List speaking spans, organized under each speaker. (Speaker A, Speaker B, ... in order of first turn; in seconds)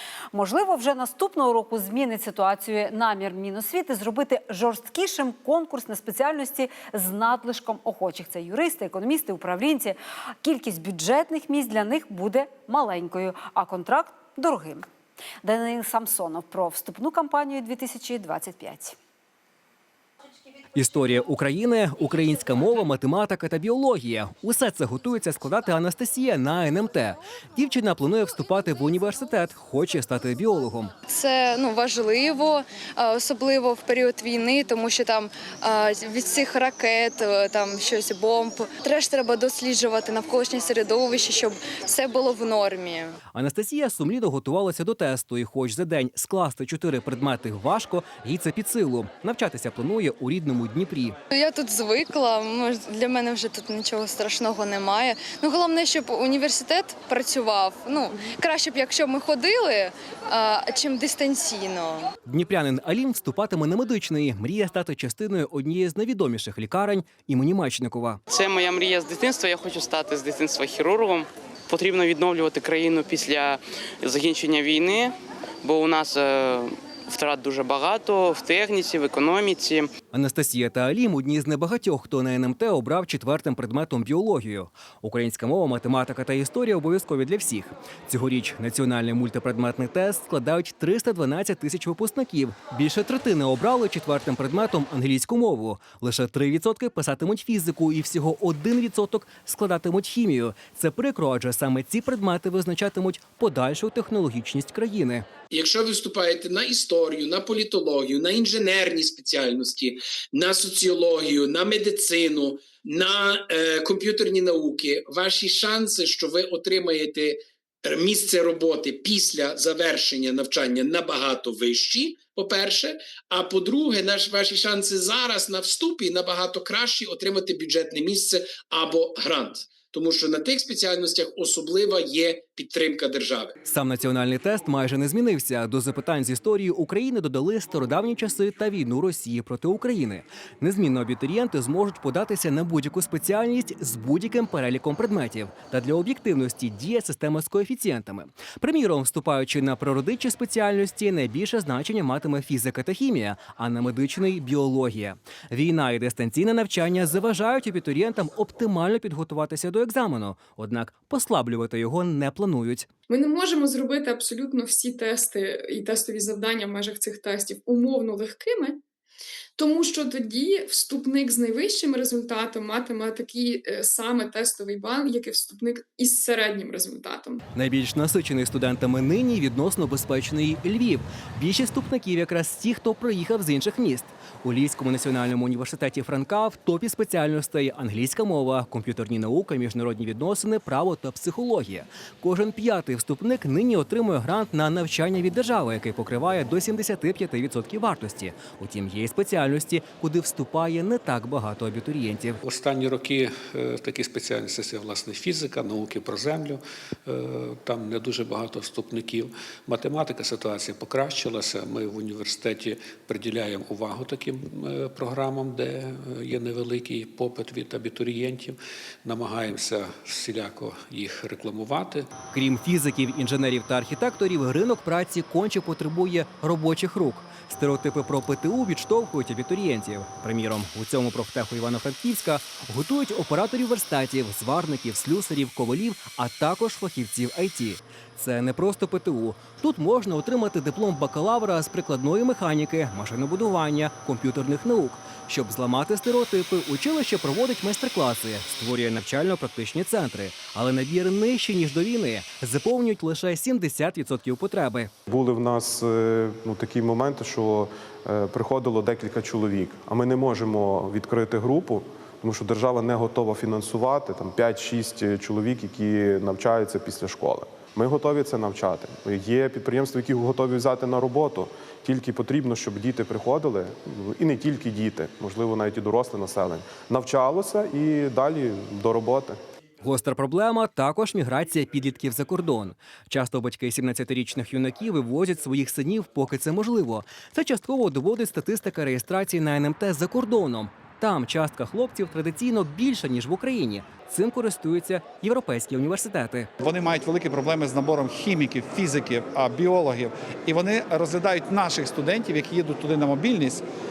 Speaker A: 0.3-14.8, 15.4-19.0
Speaker B: 20.8-30.9, 43.3-51.2, 62.3-68.2, 80.1-105.3, 133.6-162.9, 177.6-202.4, 222.3-254.9, 279.8-296.5
Speaker C: 31.2-31.9, 33.9-35.9, 36.4-40.9, 41.5-43.0, 51.5-51.9, 54.1-55.0, 55.5-56.2, 57.1-57.7, 59.0-59.8, 61.0-61.9
Speaker D: 68.3-79.9
Speaker E: 105.5-133.5
Speaker F: 163.1-168.8, 169.6-177.4
Speaker G: 202.4-222.1
Speaker H: 255.1-279.4
Speaker I: 296.6-303.6